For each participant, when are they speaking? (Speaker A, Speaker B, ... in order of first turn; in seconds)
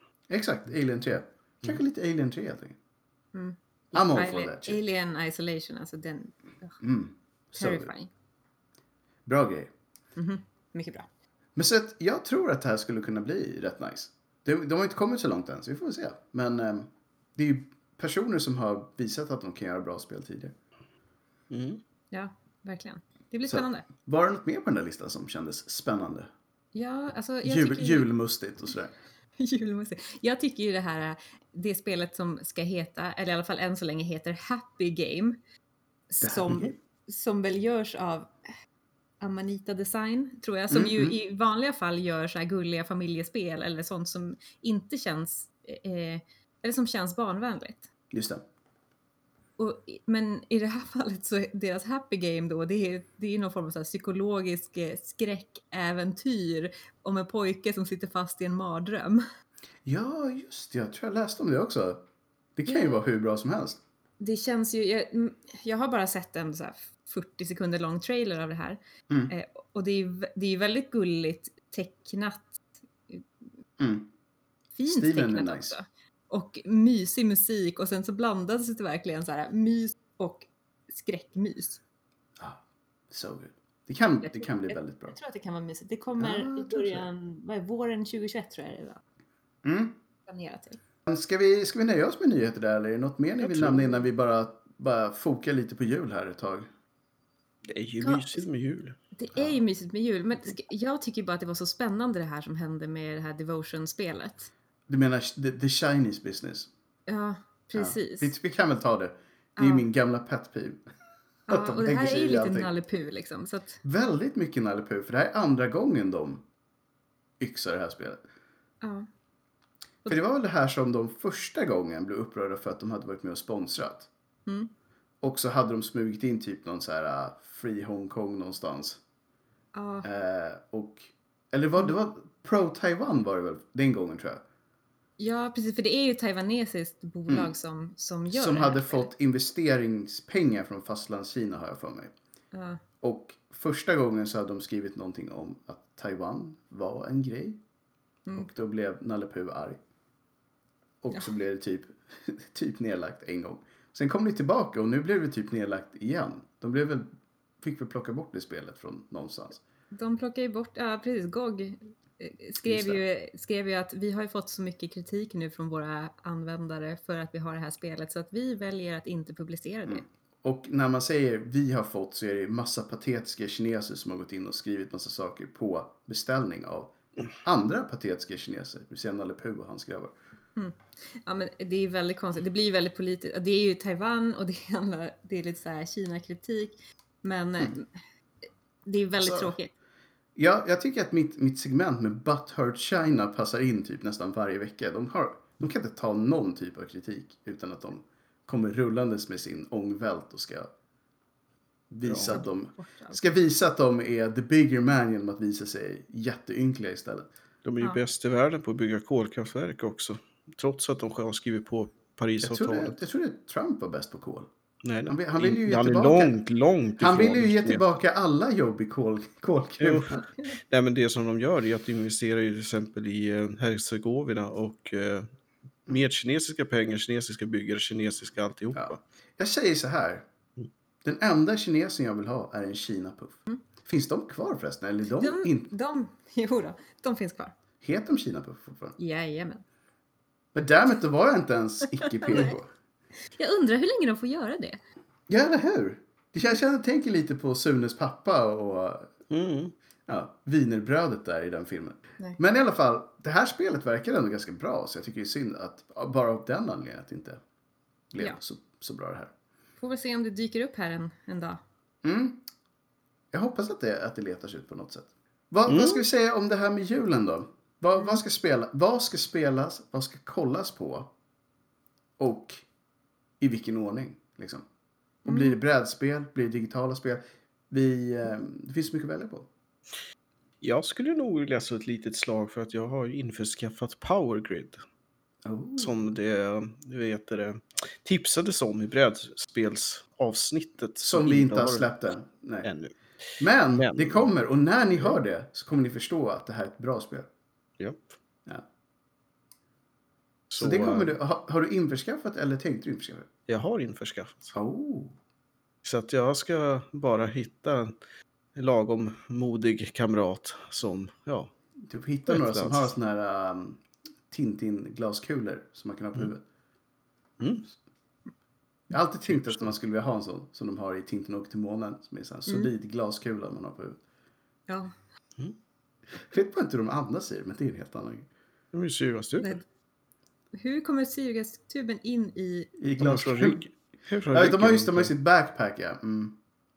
Speaker A: 0.3-2.8, 3.9-4.8, 6.8-7.9, 9.2-9.7, 11.6-20.5, 23.5-26.3, 27.4-28.9, 36.2-36.7, 40.7-41.2, 48.1-48.4, 59.8-62.0, 62.5-63.8, 73.8-74.1, 74.9-75.7, 82.4-85.2, 86.2-87.1, 89.6-89.9, 91.0-96.7, 99.3-99.6, 104.9-106.7, 107.8-110.8, 111.5-112.7, 113.8-116.4, 117.4-118.2, 120.1-124.1, 125.2-129.0, 130.0-134.4, 138.3-142.1, 143.0-147.6, 148.3-149.8, 151.0-157.1, 157.6-159.6, 162.6-163.0, 169.9-180.1, 189.2-189.5, 190.3-200.7, 201.9-207.3, 212.4-214.5, 215.1-216.3, 217.0-220.2, 228.7-230.2, 231.0-235.7, 237.8-238.9, 240.5-242.7, 245.3-249.1, 250.1-257.4, 258.1-259.3, 262.0-262.4, 263.3-271.1, 272.2-272.6, 273.4-274.6, 275.2-279.5, 285.4-286.1, 291.0-292.7, 293.4-297.3, 300.6-303.3, 304.5-305.1, 311.8-316.4, 318.9-324.0, 326.2-328.3, 332.8-333.6, 334.3-336.4
Speaker B: 3.3-6.8, 7.6-8.1, 10.2-11.1, 22.1-23.9, 26.7-28.1, 29.4-35.4, 36.1-38.3, 39.2-47.9, 49.6-59.2, 62.7-63.0, 64.2-73.2, 74.7-81.8, 84.2-89.0, 90.3-90.8, 98.0-98.4, 99.2-104.5, 107.1-108.3, 109.6-109.8, 111.5-113.8, 118.8-119.1, 129.7-130.1, 135.2-139.1, 142.5-142.8, 148.2-148.5, 159.9-170.0, 180.6-187.9, 188.8-189.7, 202.3-203.2, 220.1-220.5, 235.2-237.5, 239.0-239.6, 242.1-242.6, 243.3-244.8, 259.8-261.6, 275.2-275.6, 324.7-324.9, 330.5-332.7
Speaker C: 21.5-21.8, 93.4-93.8, 97.7-99.0, 202.1-202.4, 207.6-213.0, 214.8-217.8, 219.8-225.3, 225.9-229.0, 249.3-249.7, 265.7-266.0, 280.6-284.8, 285.8-291.9, 292.6-294.3, 297.8-298.1, 300.5-301.1, 303.5-304.5, 305.8-307.9, 308.6-311.5, 312.3-312.9, 328.7-329.5, 333.0-335.1